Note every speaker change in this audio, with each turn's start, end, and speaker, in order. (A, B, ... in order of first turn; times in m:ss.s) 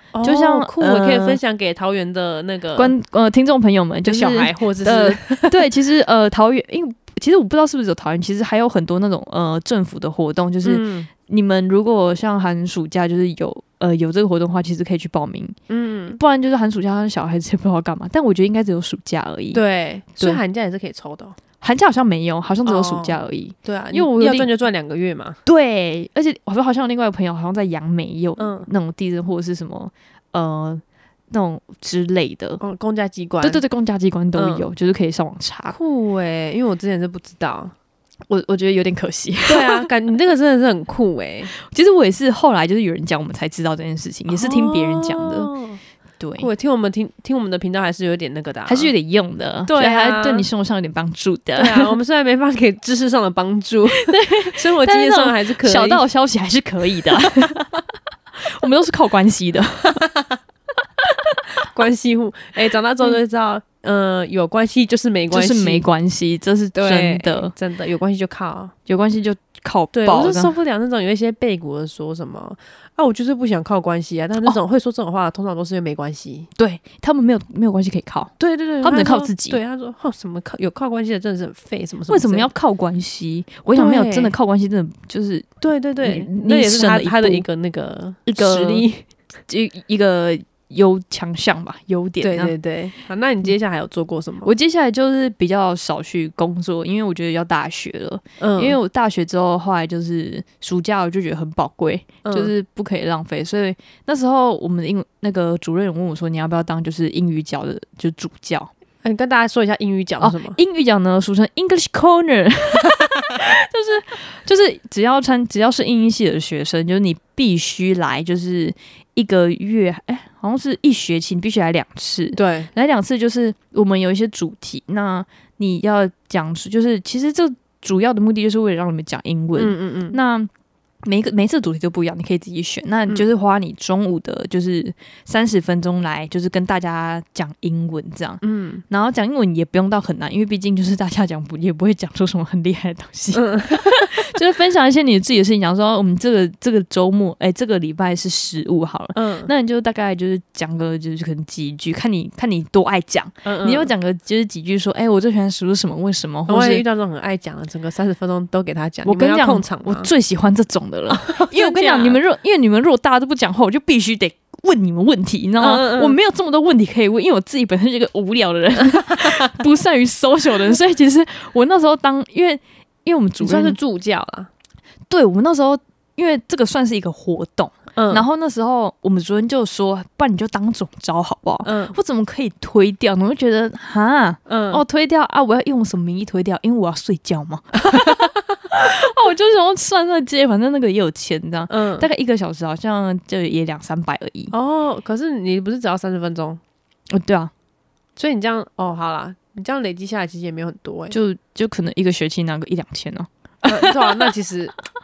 0:00.1-0:02.9 A
0:00.2-0:01.4 B
0:02.8-0:15.6 B
0:04.0-0:05.7 A
0:10.6-0:11.1 A
0:15.7-0:16.2 A
0:16.2-0:19.6 B
0:19.5-0:21.4 A
0:21.6-0:24.5 B
0:22.7-0:25.4 A
0:25.4-0:32.6 B
0:28.4-0:28.7 A
0:32.6-0:33.6 A
0:33.4-0:35.8 B
0:34.4-0:34.7 A
0:35.7-0:37.7 A
0:38.3-0:39.9 B
0:39.5-0:41.5 A
0:41.6-0:45.5 B
0:44.3-0:45.8 A
0:46.2-0:46.5 B
0:46.4-0:48.9 A
0:48.7-0:51.9 B
0:49.7-0:50.5 A
0:51.6-0:56.1 A
0:54.0-0:57.8 B
0:58.4-1:00.0 B
0:59.9-1:00.4 A
1:01.7-1:05.8 A
1:05.3-1:07.5 B
1:06.8-1:08.7 A
1:08.9-1:10.5 B
1:09.9-1:16.5 A
1:16.6-1:19.6 B
1:18.8-1:22.5 A
1:22.1-1:25.5 B
1:23.7-1:24.3 A
1:25.6-1:29.0 A
1:26.0-1:27.4 B
1:28.3-1:28.9 B
1:29.5-1:32.6 B
1:32.2-1:34.5 A
1:34.4-1:48.7 B
1:38.4-1:38.8 A
1:42.2-1:42.5 A
1:49.0-1:50.6 A
1:50.2-2:10.5 B
2:02.4-2:02.7 A
2:09.6-2:10.2 A
2:11.0-2:36.8 B
2:18.4-2:18.8 A
2:23.3-2:24.2 A
2:29.1-2:29.5 A
2:33.4-2:33.9 A
2:36.5-2:40.1 A
2:39.0-2:53.8 B
2:41.1-2:42.2 A
2:45.6-2:46.2 A
2:48.8-2:49.5 A
2:53.4-2:54.5 A
2:55.1-3:14.5 B
2:58.0-2:58.2 A
3:01.6-3:02.0 A
3:04.5-3:04.8 A
3:11.7-3:12.1 A
3:14.5-3:16.6 A
3:17.1-3:17.5 B
3:18.2-3:21.2 A
3:21.1-3:24.3 B
3:23.6-3:24.7 A